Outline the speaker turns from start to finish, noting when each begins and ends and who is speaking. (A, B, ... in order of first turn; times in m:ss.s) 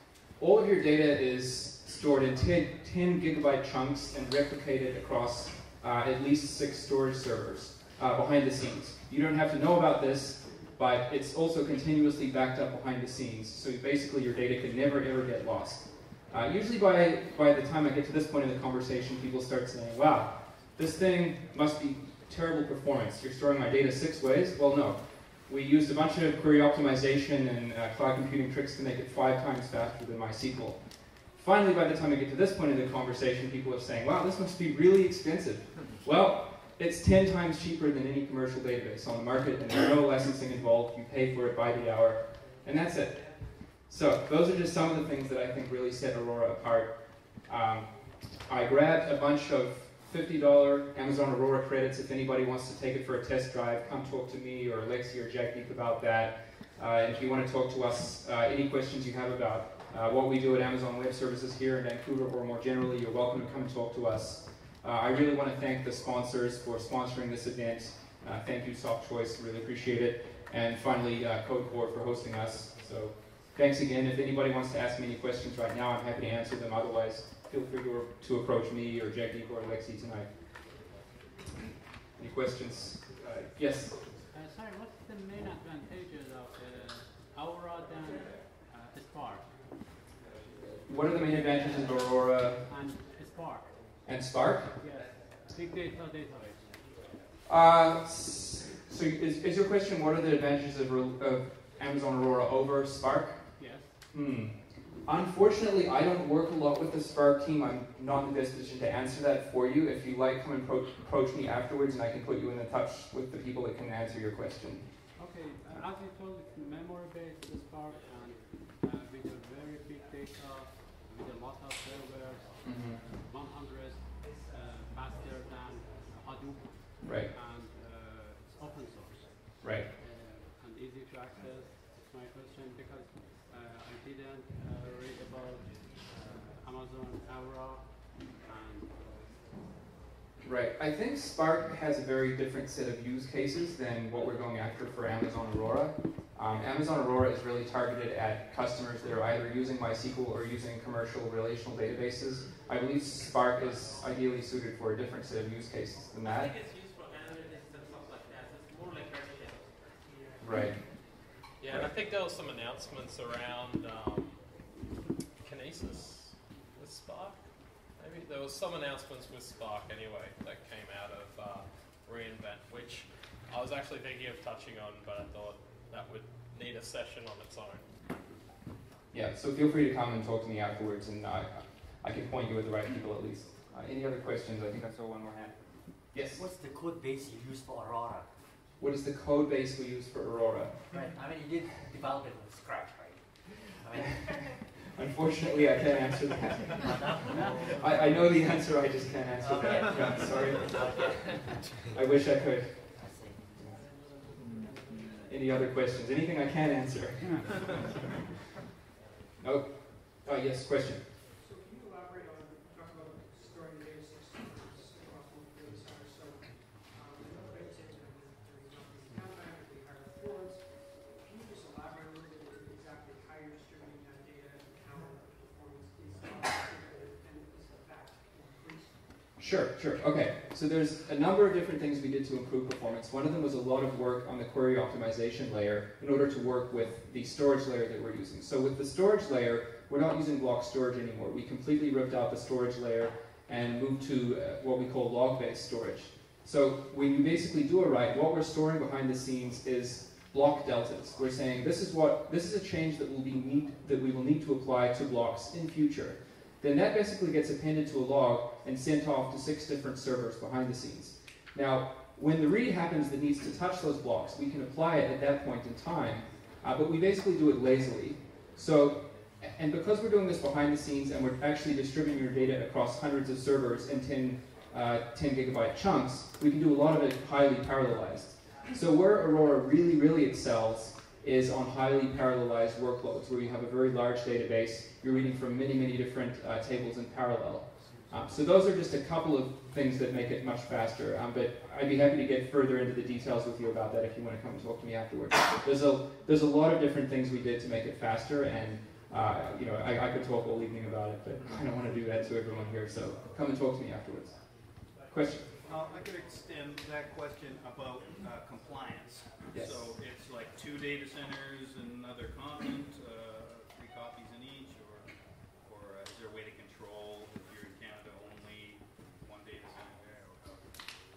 0:00.4-1:20.3 A
1:22.2-1:24.0 A
1:24.3-1:29.5 B
1:30.8-1:32.6 A
1:32.7-1:33.9 B
1:34.0-1:34.7 A
1:34.8-1:36.8 B
1:37.4-1:43.5 A
1:43.6-1:44.0 B
1:44.1-1:54.8 A
1:55.2-2:19.4 B
2:02.6-2:03.0 A
2:07.0-2:07.3 A
2:09.6-2:09.9 A
2:20.4-2:36.5 A
2:36.5-2:39.6 C
2:40.4-2:40.8 A
2:41.6-2:44.4 D
2:45.4-2:47.4 D
2:48.0-2:57.8 D
2:59.1-3:06.4 A
3:06.3-3:08.4 E
3:08.8-3:10.8 A
3:10.9-3:14.7 E
3:14.0-3:14.3 A
3:14.9-3:16.8 A
3:16.8-3:18.2 E
3:17.7-3:21.1 A
3:19.4-3:21.9 E
3:21.9-3:22.9 A
3:22.9-3:23.9 E
3:25.3-3:27.7 A
3:29.4-3:31.0 A
3:31.4-3:49.3 F
3:49.4-5:05.5 A
5:05.6-5:20.8 G
5:09.5-5:09.8 A